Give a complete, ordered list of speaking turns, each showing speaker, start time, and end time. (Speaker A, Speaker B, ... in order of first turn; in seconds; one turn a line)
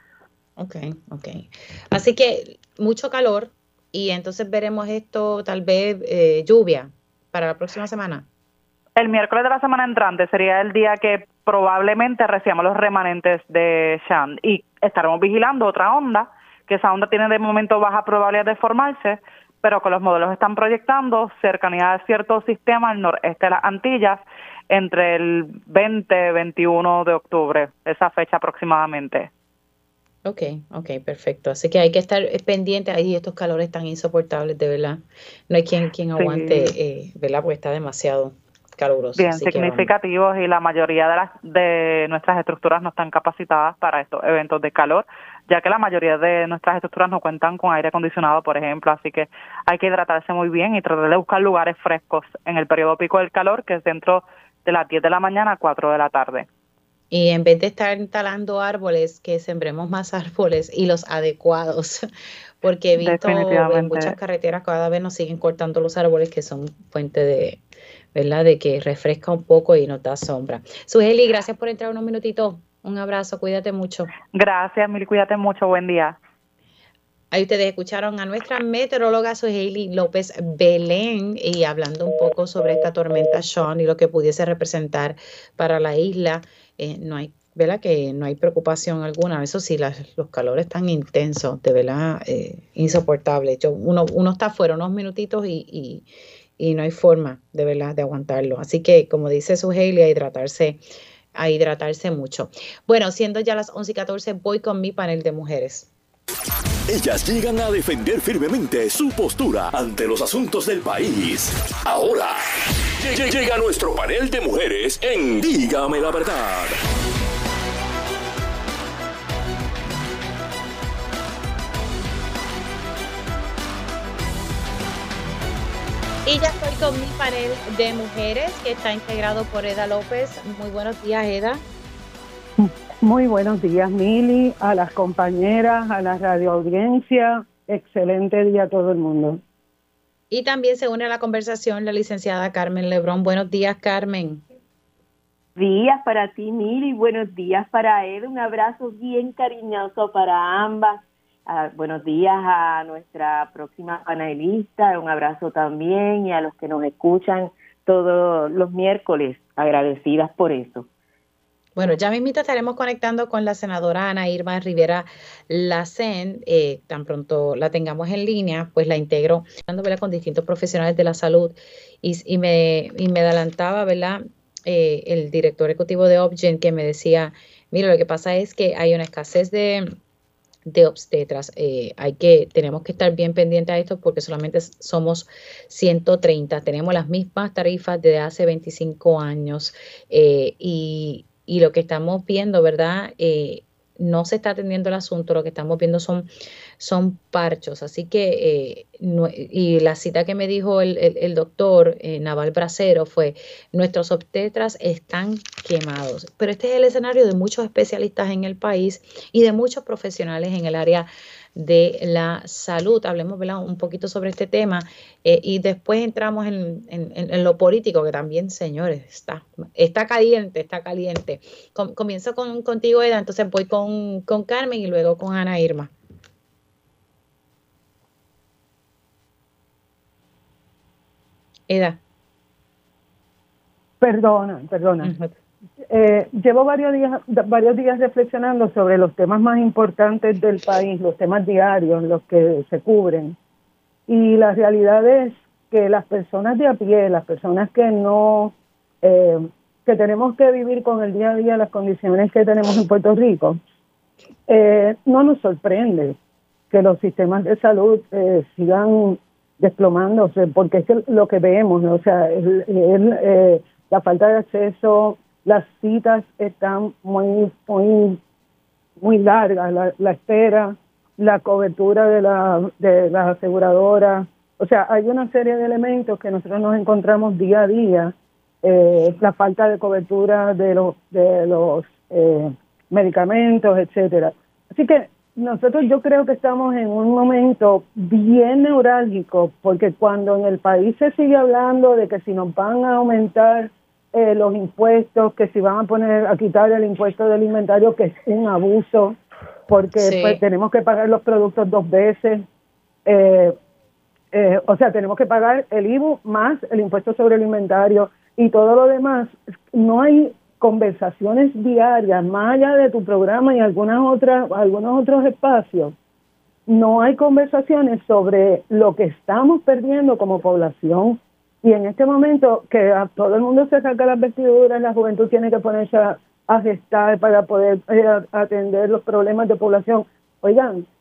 Speaker A: 0.6-8.2
Speaker B: 9.0-29.3
Speaker A: 30.2-39.9
Speaker B: 36.2-36.7
Speaker B: 39.2-56.5
Speaker A: 57.1-62.1
Speaker A: 62.6-67.6
Speaker B: 63.0-64.2
Speaker A: 68.2-74.1
Speaker B: 74.3-76.2
Speaker A: 77.3-96.1
Speaker A: 96.6-100.8
Speaker A: 101.3-105.9
Speaker C: 106.9-112.5
Speaker C: 113.0-116.8
Speaker A: 126.3-131.6
Speaker D: 132.6-139.4
Speaker A: 140.3-144.4
Speaker E: 145.6-160.9
Speaker A: 161.8-179.9
Speaker A: 180.7-196.3
Speaker A: 196.8-225.9
Speaker A: 231.7-232.0
Speaker D: 234.0-235.1
Speaker A: 235.0-235.3
Speaker D: 235.9-243.3
Speaker D: 244.1-253.6
Speaker D: 254.5-256.2
Speaker D: 256.7-268.2
Speaker D: 269.0-299.2
Speaker D: 299.7-302.4
Speaker A: 300.0-300.4
Speaker D: 303.1-303.6
Speaker D: 304.3-315.9
Speaker D: 316.7-330.9